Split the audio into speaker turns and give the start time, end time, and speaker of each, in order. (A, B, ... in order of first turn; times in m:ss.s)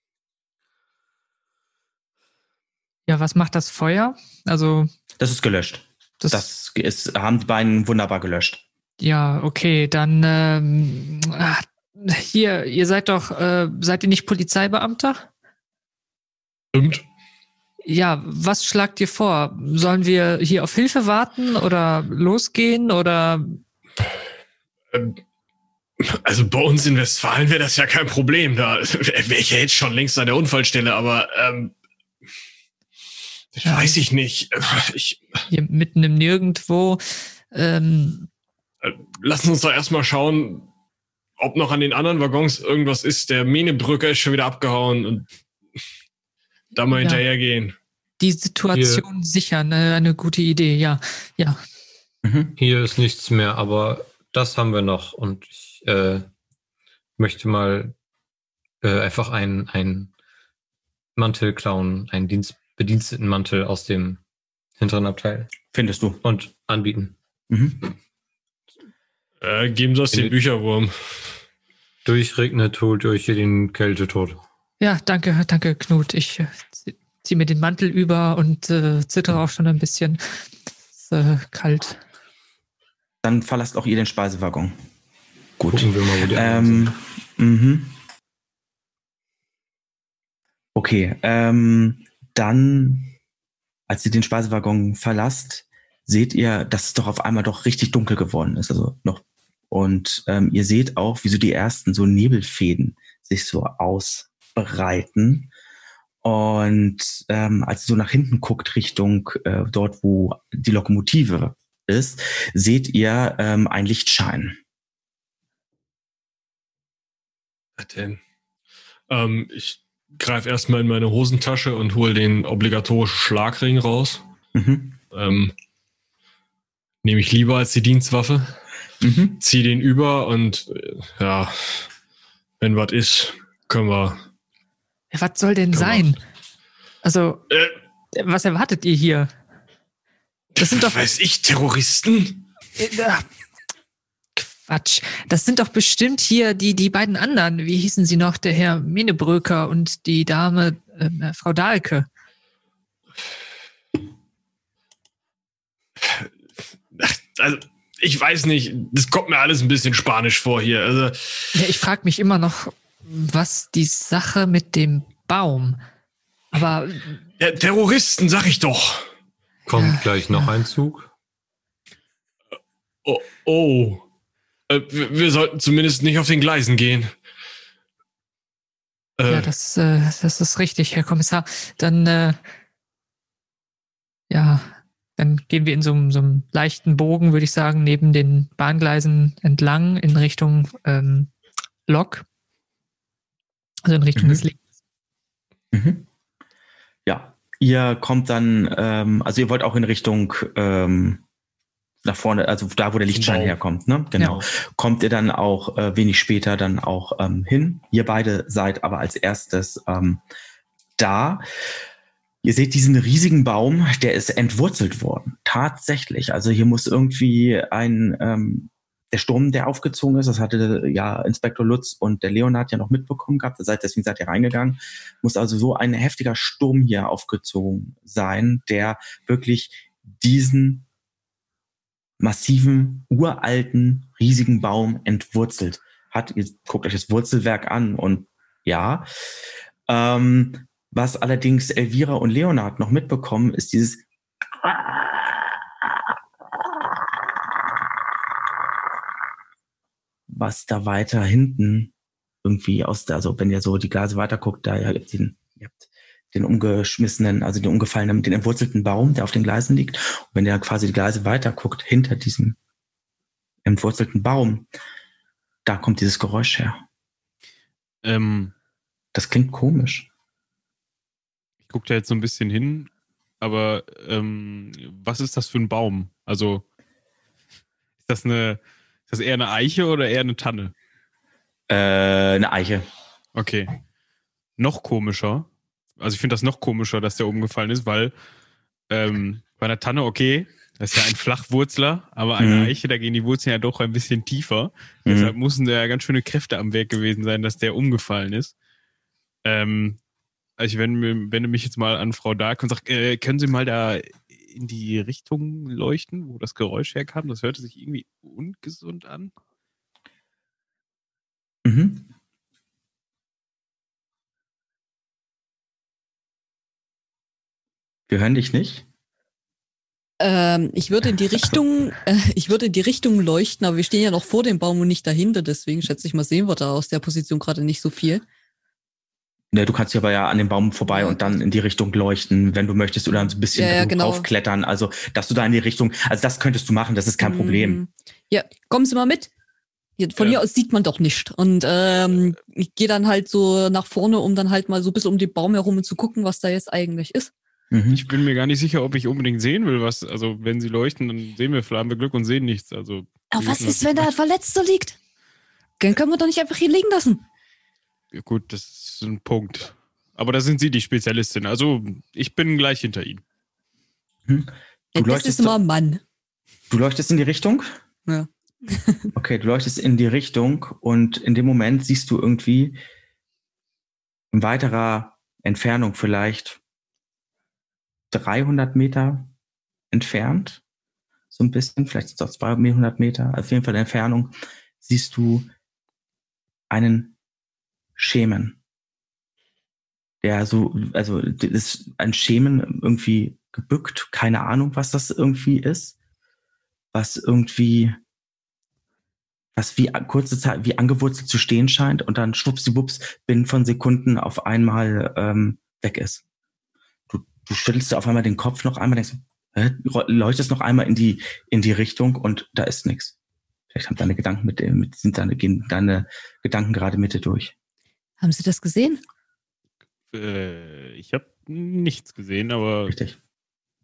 0:03.1-0:04.9 A
0:05.2-0:08.6 B
0:06.2-0:06.4 A
0:09.0-0:15.3 A
0:16.7-0:17.0 C
0:17.8-0:23.6 A
0:24.9-0:25.2 C
0:26.0-0:31.7 C
0:33.5-0:35.4 C
0:33.6-0:34.0 A
0:35.5-0:38.3 A
0:38.8-0:40.7 C
0:41.4-0:45.2 C
0:46.7-0:47.7 C
0:46.9-0:47.2 A
0:48.2-0:51.6 A
0:48.7-0:49.0 D
0:52.2-0:52.5 B
0:52.6-0:56.3 D
0:57.2-0:57.9 D
0:58.8-1:00.1 D
1:01.2-1:04.2 D
1:04.8-1:05.6 D
1:05.7-1:06.2 B
1:06.2-1:07.2 D
1:07.5-1:07.8 B
1:09.4-1:11.4 C
1:12.0-1:14.4 D
1:14.8-1:20.2 A
1:20.9-1:22.0 A
1:23.2-1:24.8 B
1:25.6-1:27.9 B
1:25.7-1:27.0 D
1:30.7-1:33.1 B
1:33.9-1:45.5 B
1:46.2-1:54.6 B
1:57.8-1:58.2 C
1:59.1-2:04.2 C
2:04.5-2:05.0 B
2:05.1-2:05.5 C
2:07.0-2:08.5 C
2:09.0-2:09.4 B
2:09.4-2:11.9 C
2:12.6-2:14.2 C
2:15.1-2:16.2 A
2:15.7-2:16.1 C
2:17.0-2:17.4 A
2:17.5-2:17.7 C
2:18.1-2:19.3 A
2:20.6-2:22.4 C
2:20.6-2:21.0 A
2:22.8-2:23.2 A
2:24.4-2:32.1 A
2:36.0-2:36.3 C
2:36.9-2:41.5 C
2:41.5-2:45.8 A
2:46.5-2:47.2 A
2:47.4-2:49.1 C
2:49.7-2:51.1 D
2:49.7-2:50.5 A
2:53.0-2:54.0 C
2:54.7-2:57.1 C
2:59.2-2:59.5 C
2:59.3-3:02.4 A
3:04.3-3:11.3 A
3:11.9-3:12.2 A
3:13.8-3:14.6 A
3:14.2-3:14.4 B
3:15.7-3:16.1 B
3:17.0-3:21.2 B
3:22.0-3:30.2 B
3:23.1-3:23.6 C
3:31.0-3:31.4 B
3:32.4-3:50.8 B
3:52.2-3:59.1 B
3:59.9-4:04.0 B
4:10.3-4:11.9 B
4:12.4-4:22.6 B
4:23.6-4:24.7 B
4:25.6-4:26.8 B
4:28.0-4:28.5 E
4:29.1-4:30.1 B
4:31.7-4:32.9 E
4:33.4-4:36.6 E
4:38.0-4:40.7 E
4:41.7-4:42.8 B
4:43.4-4:43.7 E
4:44.6-4:45.5 E
4:46.0-4:48.1 E
4:48.9-4:58.5 E
4:52.4-4:52.8 B
4:55.0-4:55.3 B
4:59.4-5:00.0 E
5:00.6-5:09.3 E
5:11.6-5:12.1 B
5:18.1-5:18.8 B
5:20.2-5:28.2 F
5:29.5-5:37.8 B
5:30.8-5:31.4 F
5:33.5-5:34.3 F
5:37.2-5:39.3 F
5:40.0-5:47.3 F
5:47.7-5:48.0 B
5:47.9-5:54.1 E
5:53.3-5:55.0 F
5:55.8-5:57.2 F
5:58.1-6:03.2 E
6:04.3-6:05.6 B
6:04.9-6:06.0 F
6:06.7-6:07.7 B
6:08.1-6:09.1 F
6:09.1-6:12.8 B
6:14.3-6:16.6 B
6:18.1-6:19.3 B
6:19.9-6:20.6 B
6:21.3-6:25.5 B
6:26.7-6:27.1 B
6:28.0-6:28.6 B
6:30.2-6:36.0 B
6:36.9-6:38.0 B
6:39.5-6:46.2 B
6:47.1-6:53.1 B
6:53.7-6:57.5 B
6:58.2-6:59.0 F
7:00.1-7:02.9 E
7:02.9-7:03.2 B